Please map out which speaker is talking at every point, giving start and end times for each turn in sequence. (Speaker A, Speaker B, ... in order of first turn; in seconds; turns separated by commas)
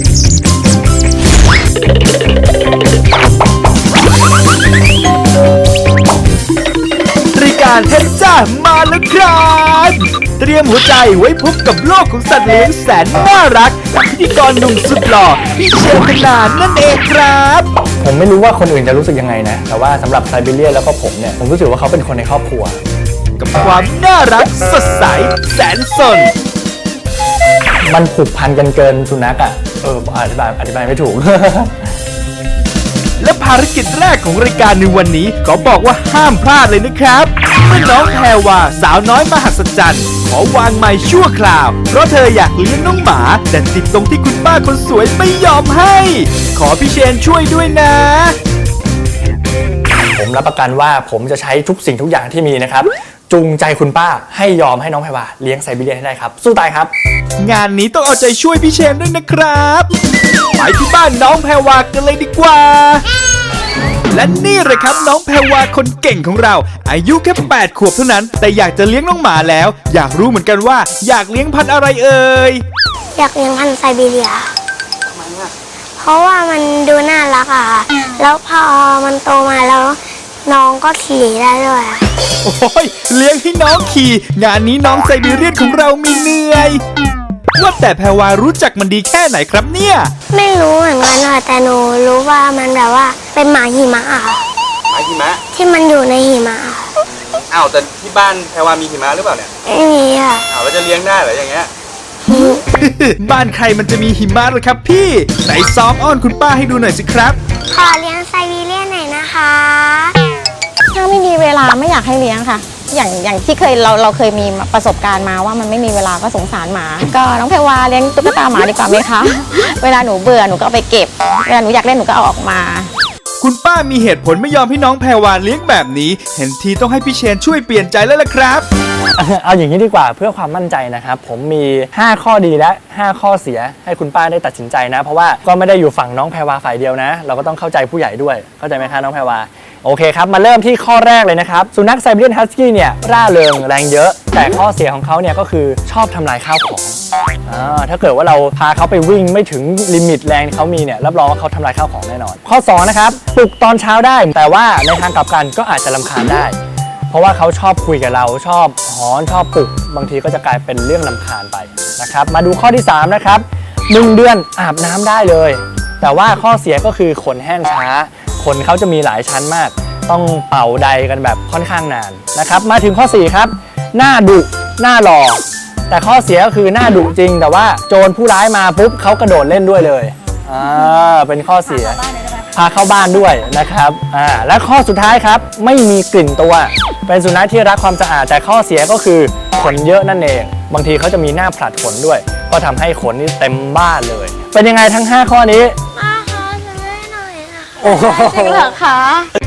Speaker A: 7.3-17.7, Speaker B: 18.0-22.8, Speaker A: 23.4-26.3, Speaker B: 27.8-31.9, Speaker A: 33.2-48.4, Speaker B: 50.1-56.9, Speaker A: 57.4-59.9, Speaker A: 60.6-63.0, Speaker A: 64.1-72.6, Speaker C: 73.2-74.5, Speaker D: 75.1-75.5, Speaker C: 76.0-82.0, Speaker A: 82.4-86.8, Speaker A: 87.6-90.1, Speaker C: 90.3-94.4, Speaker D: 94.9-95.4, Speaker C: 95.5-96.9, Speaker D: 97.1-99.5, Speaker C: 99.7-100.5, Speaker D: 100.5-101.7, Speaker C: 102.3-102.6, Speaker A: 102.8-107.4, Speaker C: 107.7-110.1, Speaker E: 110.9-122.9, Speaker A: 123.4-128.7, Speaker B: 129.2-156.6, Speaker B: 157.1-182.0, Speaker B: 182.5-195.8, Speaker C: 196.0-198.3, Speaker B: 197.8-198.8, Speaker E: 198.4-199.3